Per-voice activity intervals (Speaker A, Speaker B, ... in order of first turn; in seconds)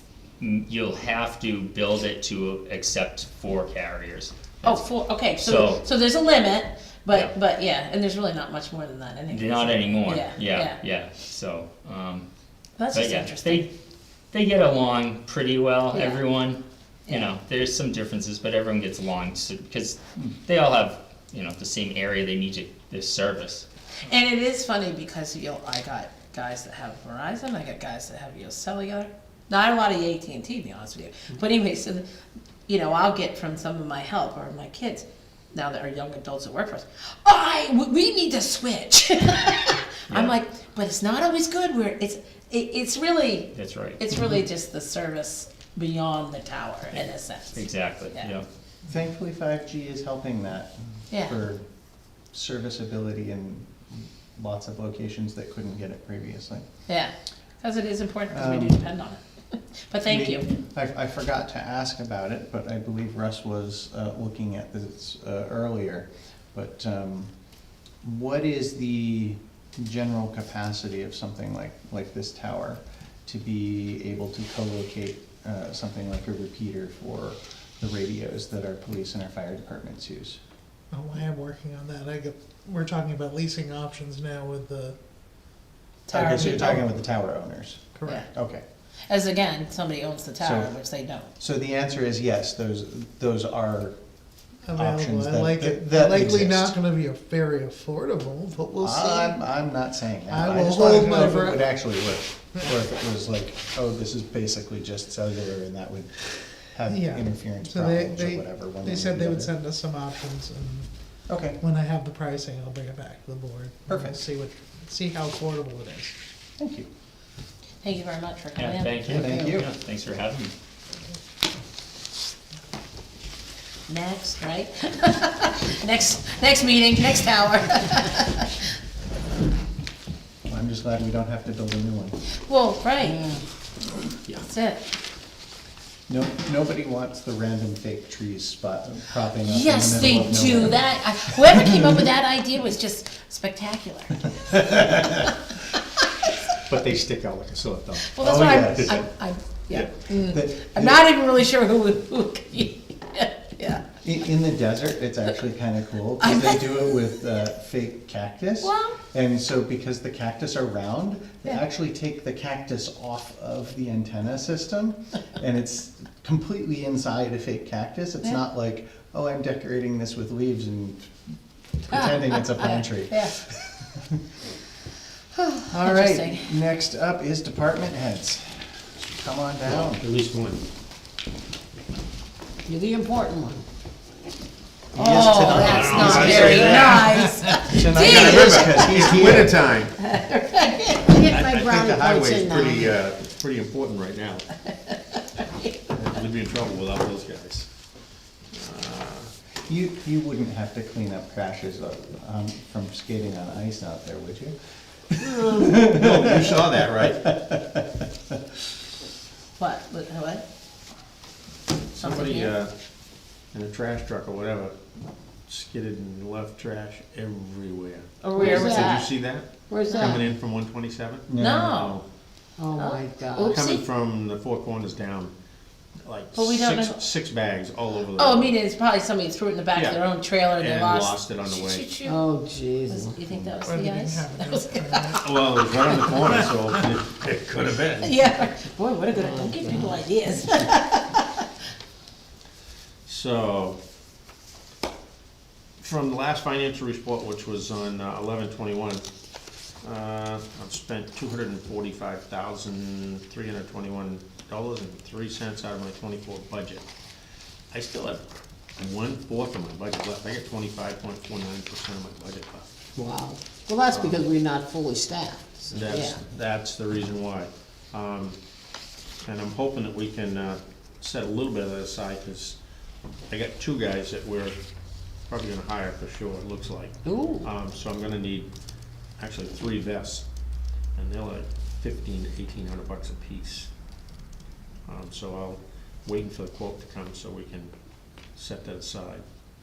Speaker A: 0.4-4.8, 5.4-5.8, 9.3-12.3, 12.9-13.7, 14.3-23.6, 40.1-40.3, 43.5-44.0, 46.9-48.5, 118.5-120.5
Speaker B: 4.6-10.8, 12.8-13.7, 15.9-16.2, 24.0-32.0, 32.7-48.3, 51.1-51.4, 56.9-60.5, 86.1-86.8, 89.1-91.3, 117.8-119.3, 123.9-128.6, 132.5-133.3, 134.4-134.8, 139.4-145.3, 148.1-153.8, 156.2-157.1, 158.6-159.0, 172.7-173.3, 175.3-176.5, 184.9-189.4, 190.0-191.3, 194.9-195.7, 209.6-210.4, 212.0-212.6, 218.2-219.1, 219.9-220.2, 221.3-222.0, 222.7-223.8, 226.3-227.0, 228.1-232.3, 232.8-235.2, 238.0-241.4
Speaker C: 48.9-51.6, 52.3-56.6, 58.3-58.8, 60.1-67.3, 68.0-80.4, 86.1-88.6, 90.4-90.7, 91.4-94.0, 94.7-96.7, 98.8-109.5, 111.3-111.6, 113.9-114.2, 116.6-116.9, 119.1-119.7, 130.5-132.2, 136.1-140.9, 148.2-149.0, 150.1-151.2, 154.0-171.1, 171.8-173.6, 175.7-180.0, 184.9-189.6, 199.7-204.6, 205.1-208.0, 221.3-221.7
Speaker D: 80.9-85.0, 86.2-86.8, 88.0-88.2, 94.7-99.4, 100.3-101.7, 106.9-110.9, 111.6-116.1, 233.6-235.3
Speaker E: 133.0-133.4, 182.7-183.7, 191.2-192.9, 218.4-219.0, 219.7-220.3, 222.6-223.8, 232.1-233.2, 235.9-236.4, 239.1-240.0, 262.9-266.2, 277.0-277.5
Speaker F: 146.7-149.1, 179.6-180.6, 185.6-187.1, 188.0-189.9, 191.1-194.4, 195.9-197.7, 198.5-199.3, 205.2-207.3, 211.9-212.7, 213.5-214.7, 215.5-222.0, 223.4-225.3, 226.0-228.6, 229.7-232.1, 235.2-238.2, 243.1-243.8, 245.8-249.0, 249.8-256.9, 257.7-258.2, 258.8-262.7, 263.9-264.3, 265.7-268.4, 269.2-272.6, 273.3-274.6, 275.3-278.5, 279.2-280.2, 280.9-283.7, 284.9-287.7, 288.3-289.2